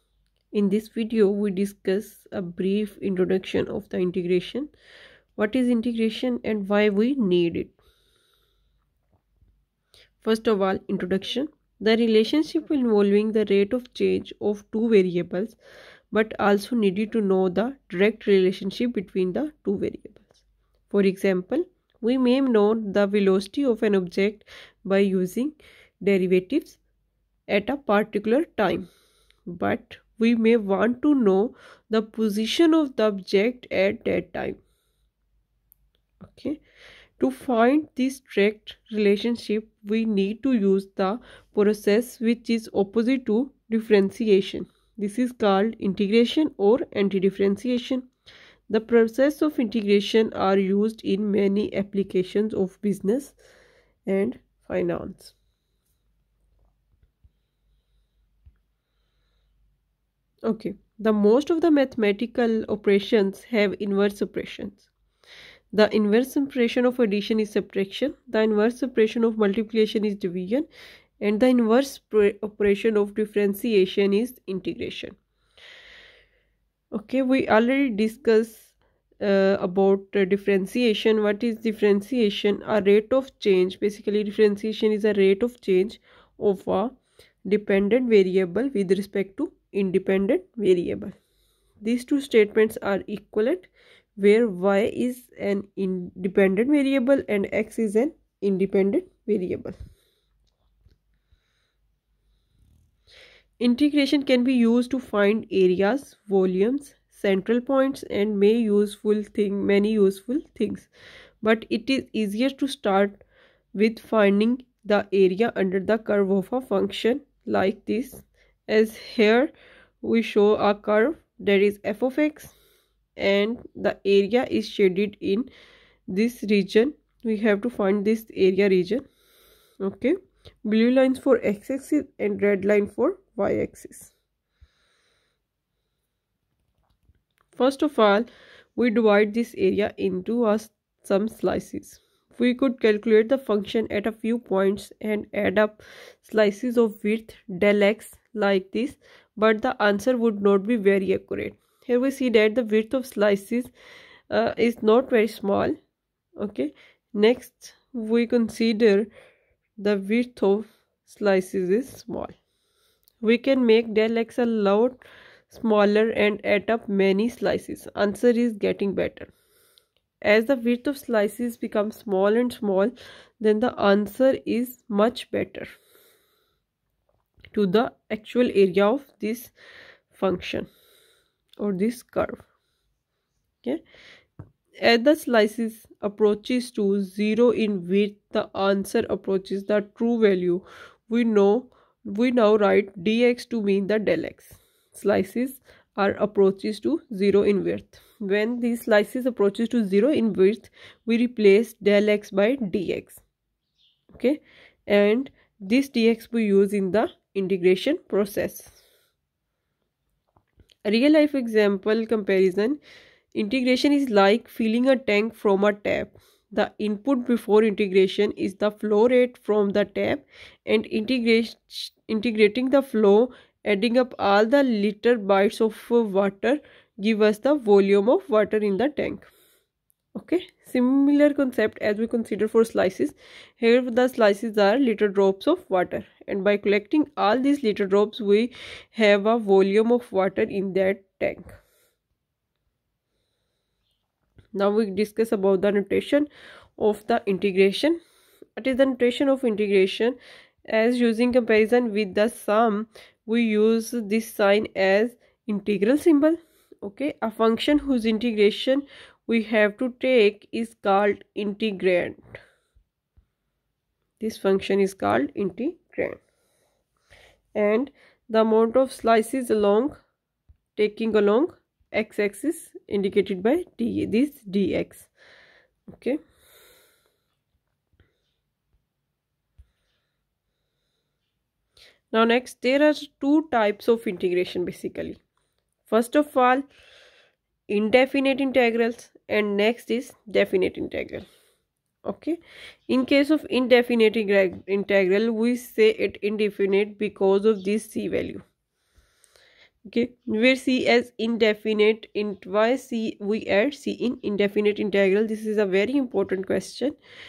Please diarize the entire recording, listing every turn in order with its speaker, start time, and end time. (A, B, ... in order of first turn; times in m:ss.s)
0:00.5-0:04.7 A
0:05.4-0:07.8 A
0:10.2-0:15.6 A
0:16.1-0:26.8 A
0:27.5-0:28.9 A
0:29.5-0:34.6 A
0:36.2-0:36.6 A
0:37.2-0:48.1 A
0:48.7-0:53.4 A
0:54.1-0:55.4 A
1:00.5-1:04.9 A
1:05.7-1:10.7 A
1:11.2-1:15.2 A
1:16.9-1:31.2 A
1:31.8-1:39.8 A
1:43.6-1:50.9 A
1:51.4-1:53.2 A
1:53.8-2:02.5 A
2:03.2-2:05.5 A
2:06.1-2:09.0 A
2:09.8-2:14.1 A
2:17.6-2:33.7 A
2:34.3-2:35.8 A
2:36.4-2:39.1 A
2:39.8-2:42.3 A
2:43.2-2:49.3 A
2:50.2-2:55.8 A
2:57.5-2:59.5 A
3:00.1-3:00.7 A
3:01.6-3:02.4 A
3:04.8-3:23.2 A
3:24.1-3:28.8 A
3:30.8-3:32.8 A
3:33.3-3:49.3 A
3:50.2-4:01.6 A
4:04.5-4:08.0 A
4:08.6-4:10.2 A
4:10.7-4:22.3 A
4:24.2-4:26.2 A
4:27.6-4:30.0 A
4:30.8-4:35.1 A
4:35.9-4:36.2 A
4:42.1-4:45.2 A
4:45.9-4:46.6 A
4:47.7-4:51.3 A
4:52.1-4:52.4 A
4:52.9-4:58.4 A
4:59.9-5:07.0 A